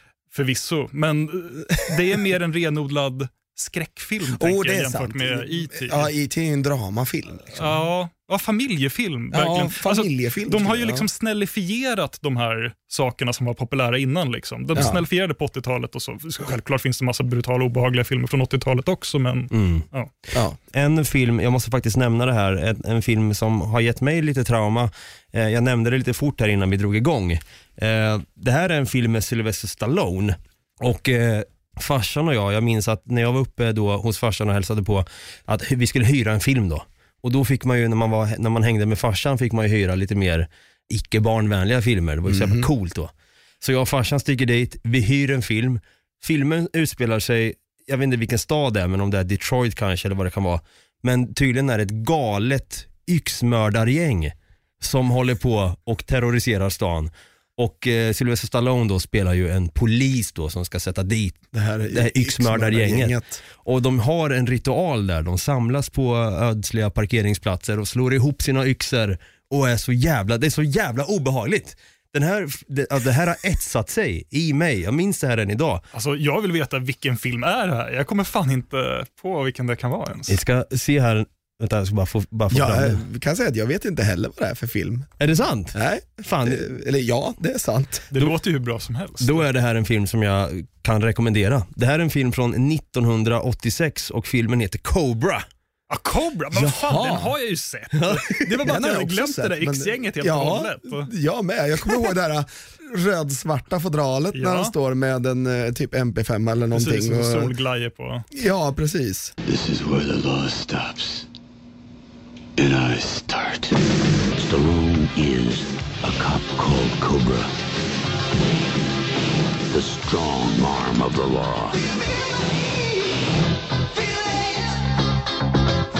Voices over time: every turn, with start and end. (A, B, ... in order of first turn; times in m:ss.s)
0:00.3-0:06.1 A
0:04.3-0:07.7 B
0:07.6-0:20.1 A
0:09.3-0:11.0 B
0:14.7-0:15.0 B
0:19.5-0:19.9 C
0:20.7-0:43.1 C
0:42.2-0:42.7 B
0:43.6-1:15.8 C
1:01.5-1:03.4 B
1:15.9-1:20.4 A
1:20.3-1:23.0 C
1:22.5-1:25.1 B
1:25.2-1:26.7 C
1:25.7-1:28.1 B
1:28.1-1:29.4 A
1:29.2-1:35.4 C
1:35.9-1:41.1 A
1:36.5-1:37.4 B
1:38.0-1:38.4 C
1:38.5-1:47.5 B
1:44.3-1:44.7 A
1:46.7-1:48.2 A
1:48.3-1:49.3 B
1:49.4-1:51.2 D
1:52.6-1:53.8 D
1:54.4-1:57.5 D
1:59.7-2:01.9 D